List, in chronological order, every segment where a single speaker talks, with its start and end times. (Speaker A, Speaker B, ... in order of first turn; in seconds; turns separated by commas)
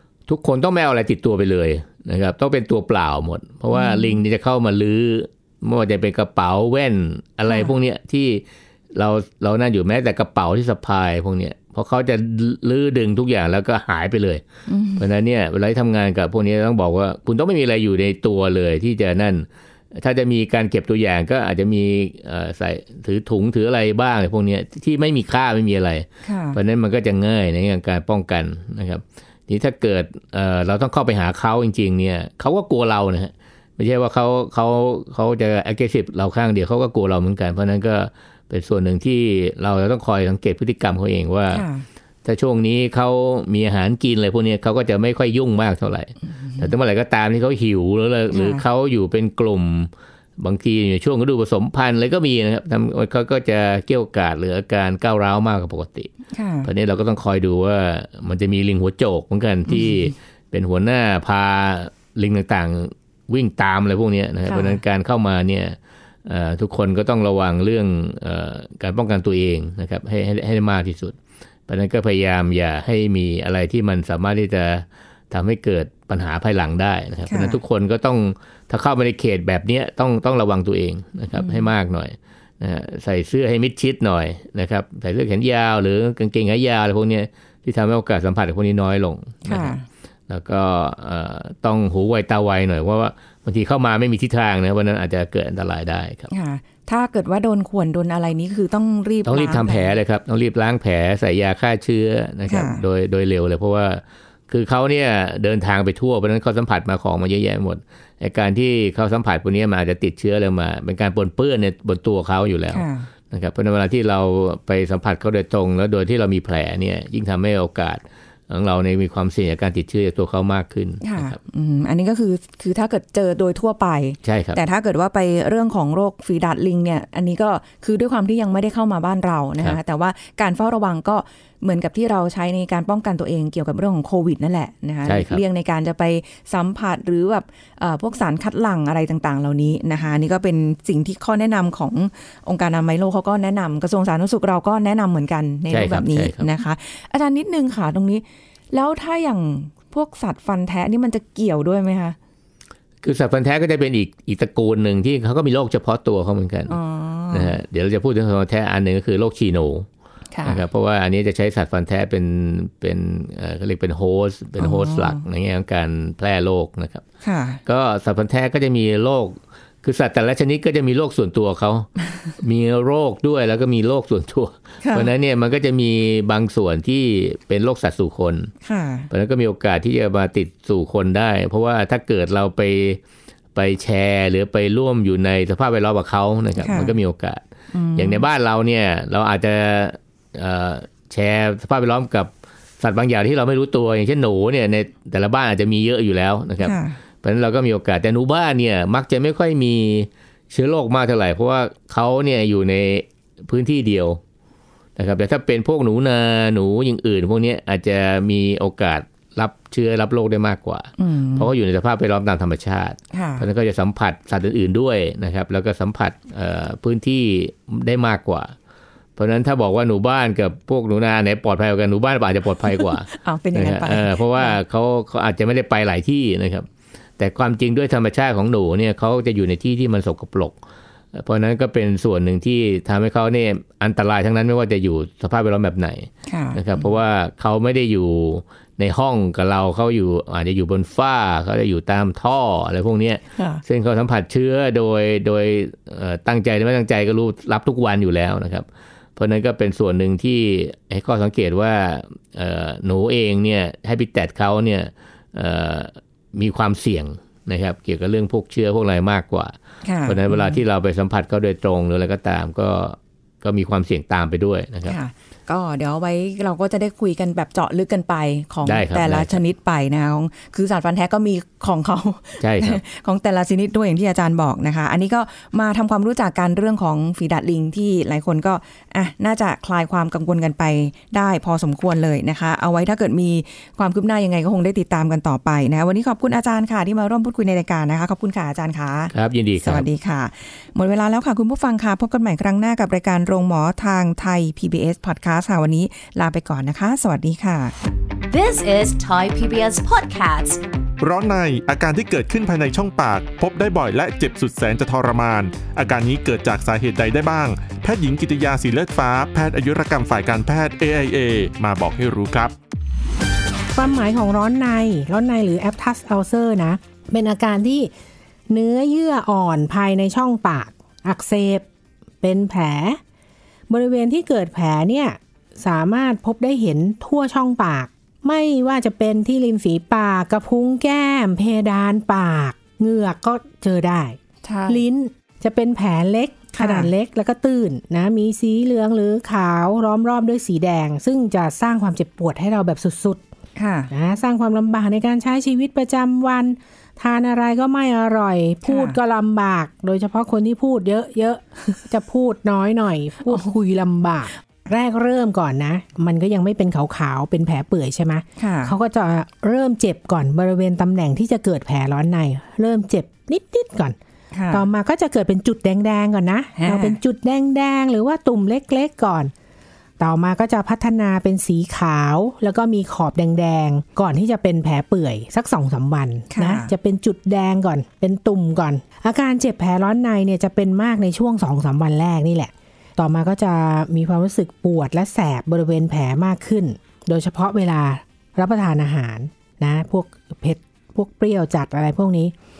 Speaker A: 0.3-14.4, Speaker B: 3.7-4.2, Speaker B: 14.7-15.0, Speaker A: 15.0-41.6, Speaker B: 26.2-26.6, Speaker B: 41.5-41.9, Speaker A: 42.2-56.1, Speaker B: 46.4-46.7, Speaker B: 48.3-48.6, Speaker B: 56.3-56.7, Speaker A: 56.6-71.2, Speaker B: 59.7-60.1, Speaker B: 64.5-64.8, Speaker A: 71.7-89.7, Speaker B: 77.3-77.6, Speaker B: 81.3-81.7, Speaker B: 89.5-89.8, Speaker A: 90.3-96.3, Speaker B: 96.3-100.0, Speaker A: 99.2-121.4, Speaker B: 102.5-102.8, Speaker B: 112.7-113.1, Speaker B: 121.0-152.2, Speaker A: 124.2-124.6, Speaker A: 135.1-135.4, Speaker A: 145.7-146.5, Speaker A: 153.0-156.8, Speaker B: 156.7-157.5, Speaker A: 157.3-159.9, Speaker B: 160.3-160.6, Speaker A: 160.4-167.0, Speaker B: 164.6-165.2, Speaker B: 167.2-167.6, Speaker A: 167.7-178.5, Speaker B: 174.8-175.1, Speaker B: 178.6-179.1, Speaker A: 179.1-183.0, Speaker A: 183.6-187.4, Speaker B: 186.6-186.9, Speaker B: 187.7-188.2, Speaker A: 188.0-204.2, Speaker B: 196.6-197.0, Speaker A: 205.0-218.5, Speaker B: 211.0-211.5, Speaker B: 213.1-213.4, Speaker A: 219.2-230.6, Speaker B: 222.7-224.6, Speaker A: 231.1-265.0, Speaker B: 236.3-236.8, Speaker B: 243.4-243.6, Speaker B: 259.8-260.6, Speaker B: 264.9-297.7, Speaker A: 268.6-269.4, Speaker A: 272.4-272.8, Speaker A: 289.1-289.9, Speaker C: 298.3-300.6, Speaker D: 301.0-312.5, Speaker E: 313.7-317.9, Speaker E: 318.5-321.7, Speaker E: 322.2-323.0, Speaker E: 323.7-343.2, Speaker B: 334.4-334.9, Speaker B: 336.5-336.9, Speaker B: 343.6-343.9, Speaker E: 343.9-364.0, Speaker B: 348.6-349.0, Speaker B: 358.4-358.7, Speaker B: 364.3-364.7, Speaker E: 364.5-369.3, Speaker B: 366.6-367.0, Speaker E: 370.0-392.3, Speaker B: 376.3-376.7